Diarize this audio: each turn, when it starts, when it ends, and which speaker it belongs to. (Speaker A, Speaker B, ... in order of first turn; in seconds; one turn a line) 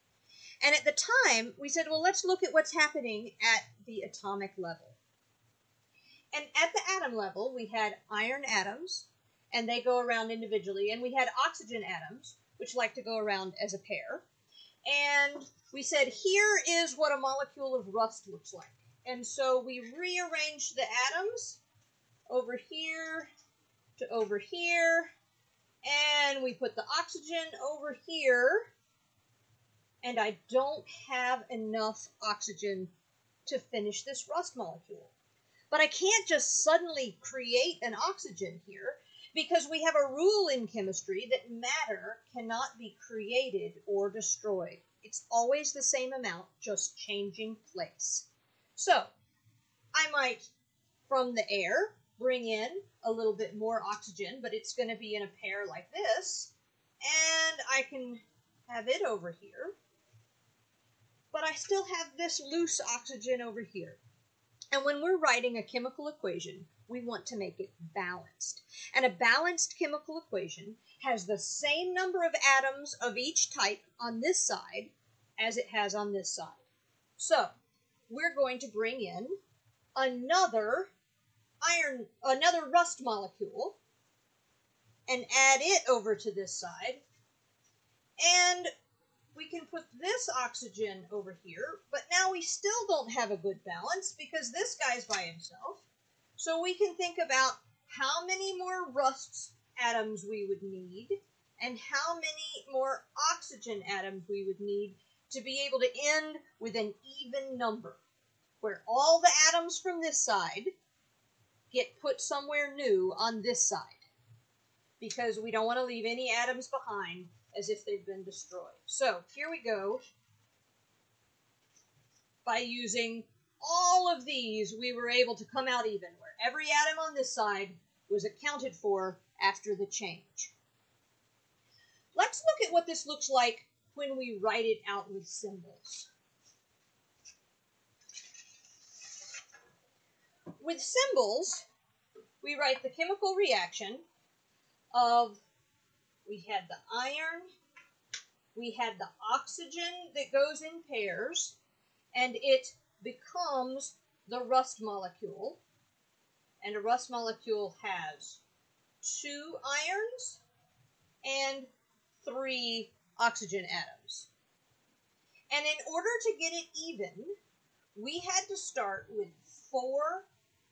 Speaker A: 0.6-5.0
Speaker A: 6.3-14.2
Speaker A: 14.9-21.6
Speaker A: 22.3-23.3
Speaker A: 24.0-25.1
Speaker A: 25.8-28.7
Speaker A: 30.0-32.9
Speaker A: 33.5-35.1
Speaker A: 35.7-49.1
Speaker A: 50.0-50.5
Speaker A: 51.1-56.5
Speaker A: 57.0-59.7
Speaker A: 61.3-64.0
Speaker A: 64.7-76.6
Speaker A: 77.2-77.5
Speaker A: 78.1-79.4
Speaker A: 80.0-80.9
Speaker A: 81.6-83.8
Speaker A: 85.1-87.0
Speaker A: 88.2-88.7
Speaker A: 89.3-95.9
Speaker A: 96.4-108.0
Speaker A: 108.6-110.7
Speaker A: 111.7-114.1
Speaker A: 115.0-120.0
Speaker A: 122.5-130.5
Speaker A: 132.2-136.1
Speaker A: 140.6-141.6
Speaker A: 142.4-144.0
Speaker A: 144.9-145.4
Speaker A: 146.3-147.5
Speaker A: 148.6-151.6
Speaker A: 152.1-155.6
Speaker A: 156.6-158.4
Speaker A: 159.0-160.4
Speaker A: 161.2-161.7
Speaker A: 162.2-164.3
Speaker A: 165.5-167.3
Speaker A: 167.9-170.3